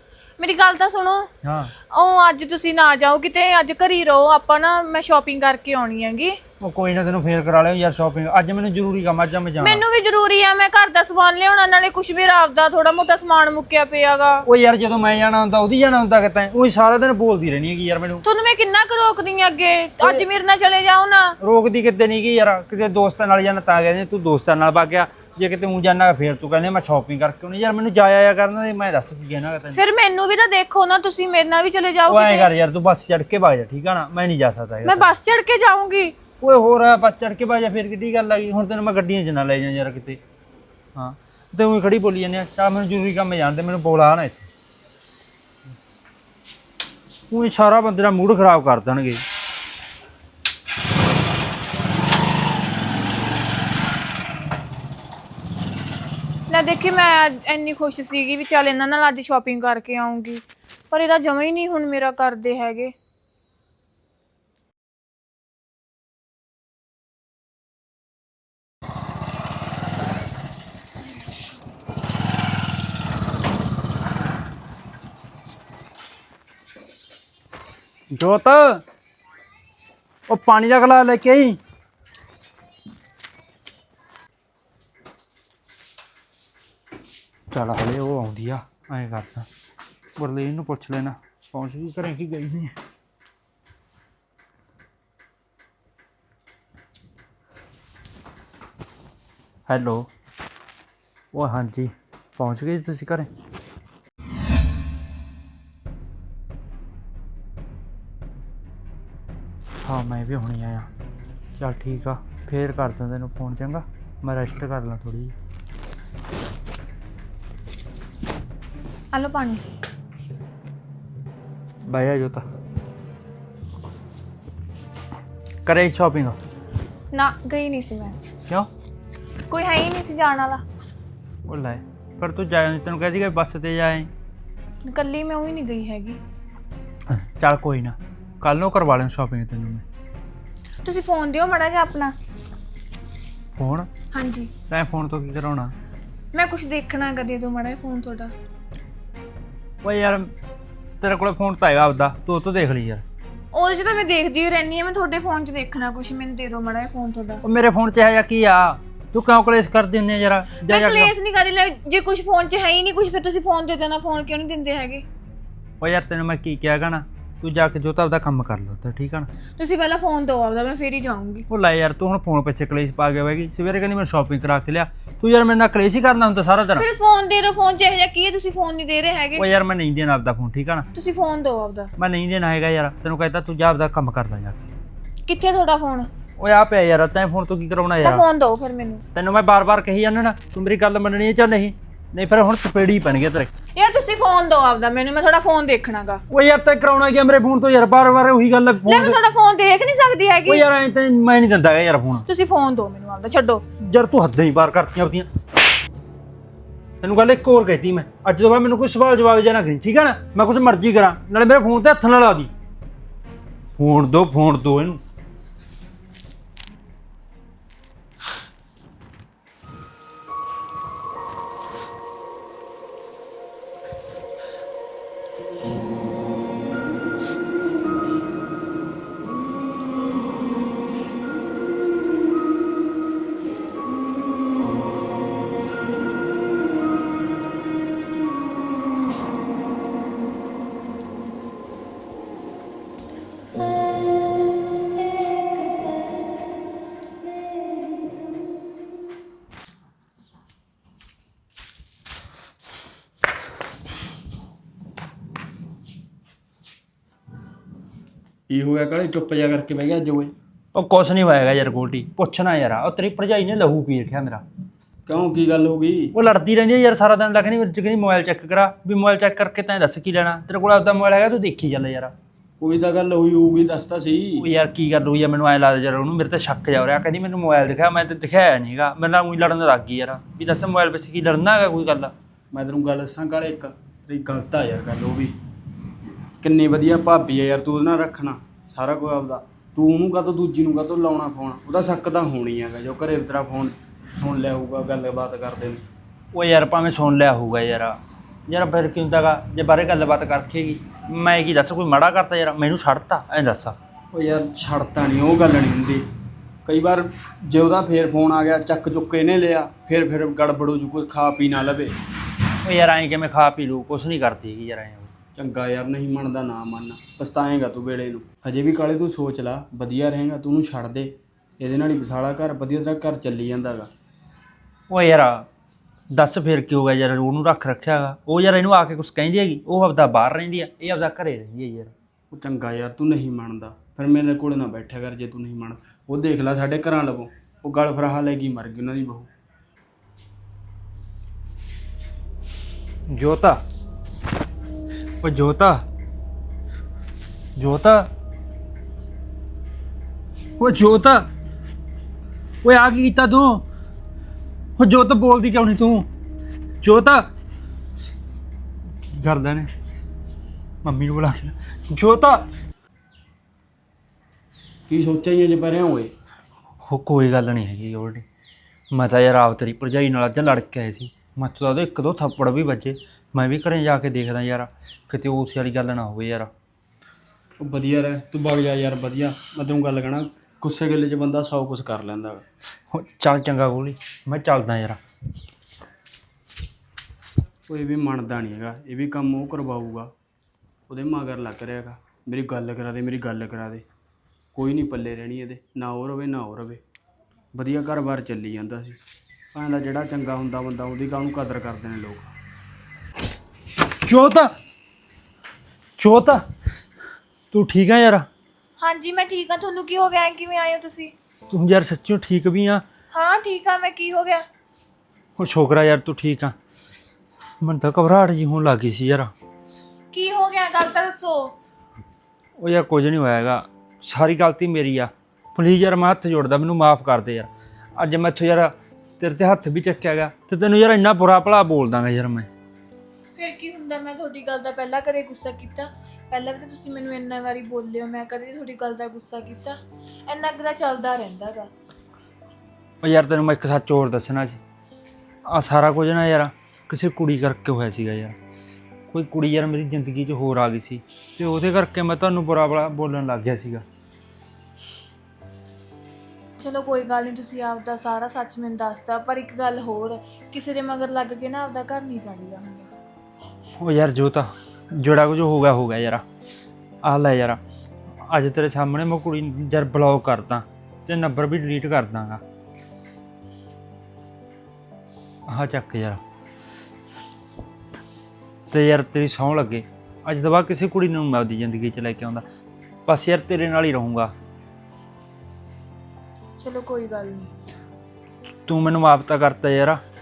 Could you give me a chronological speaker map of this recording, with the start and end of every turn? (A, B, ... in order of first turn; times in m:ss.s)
0:00.4-0:01.3 A
0:01.4-0:01.7 B
0:01.9-0:06.4 A
0:06.6-0:09.8 B
0:09.6-0:14.4 A
0:14.4-0:18.2 B
0:18.2-0:21.4 A
0:21.4-0:29.8 B
0:29.7-0:32.5 A
0:32.1-0:35.1 B
0:34.8-0:36.2 A
0:36.4-0:40.2 B
0:40.9-0:44.5 B
0:47.3-0:49.2 B
0:56.5-1:02.9 A
1:18.1-1:18.8 B
1:20.3-1:21.6 B
1:27.5-1:29.5 B
1:30.2-1:32.7 B
1:39.7-1:40.1 B
1:41.3-1:43.3 B
1:49.8-1:50.9 B
1:51.6-1:55.3 B
1:59.1-1:59.6 A
2:01.8-2:02.4 B
2:05.6-2:06.4 B
2:07.1-2:08.2 A
2:09.5-2:10.6 A
2:11.4-2:14.1 B
2:14.8-2:16.2 A
2:17.1-2:19.8 B
2:20.8-2:22.2 A
2:23.6-2:23.9 B
2:24.1-2:24.5 A
2:24.7-2:25.7 B
2:26.3-2:28.3 A
2:29.8-2:30.3 B
2:31.0-2:33.0 B
2:33.5-2:37.4 A
2:37.4-2:41.1 B
2:40.6-2:45.0 A
2:45.8-2:49.3 B
2:49.6-2:51.5 A
2:51.5-2:56.8 B
2:56.8-2:59.4 A
2:59.3-3:00.9 B
3:00.9-3:01.9 A
3:02.0-3:04.7 B
3:05.3-3:06.1 A
3:06.4-3:08.2 B
3:08.0-3:09.0 A
3:09.1-3:13.5 B
3:13.7-3:16.2 A
3:16.3-3:19.2 B
3:18.8-3:20.6 A
3:20.4-3:22.2 B
3:22.3-3:23.6 A
3:23.8-3:25.3 B
3:27.0-3:32.5 B
3:33.8-3:35.0 B
4:18.5-4:20.3 C
4:20.7-4:24.4 B
4:25.1-4:26.1 C
4:26.1-4:32.1 B
4:32.6-4:34.5 C
4:34.4-4:42.1 B
4:42.5-4:45.3 C
4:46.4-4:55.8 C
4:56.3-5:03.8 B
5:04.1-5:06.0 C
5:06.6-5:11.9 C
5:12.6-5:15.1 B
5:15.3-5:23.9 C
5:24.9-5:25.5 B
5:26.1-5:31.9 B
5:32.3-5:39.3 C
5:43.1-5:43.6 B
5:45.2-5:45.8 B
5:47.6-5:48.1 B
5:50.6-5:51.2 B
5:52.6-5:53.6 B
5:54.8-5:56.1 B
5:56.8-5:57.3 B
5:59.1-5:59.7 B
6:00.8-6:02.5 B
6:04.9-6:06.1 C
6:06.8-6:08.2 B
6:08.9-6:16.5 B
6:17.6-6:22.4 C
6:22.9-6:25.0 B
6:27.7-6:30.1 C
6:30.9-6:33.8 C
6:34.5-6:36.8 C
6:37.5-6:39.0 C
6:39.5-6:42.3 C
6:44.0-6:44.5 B
6:46.0-6:46.5 B
6:47.5-6:48.3 B
6:48.8-6:51.1 A
6:51.5-6:52.8 B
6:53.1-6:54.4 A
6:55.4-6:56.6 B
6:57.6-6:59.3 B
7:00.1-7:01.5 A
7:02.6-7:12.5 B
7:13.4-7:21.7 A
7:23.0-7:24.6 B
7:25.4-7:28.4 B
7:29.1-7:33.8 B
7:36.6-7:42.9 A
7:43.8-7:46.2 B
7:47.0-7:47.6 B
7:48.2-7:52.4 B
7:55.5-7:56.2 B
7:58.7-8:02.4 B
8:03.0-8:04.3 B
8:06.6-8:07.5 A
8:08.6-8:10.0 B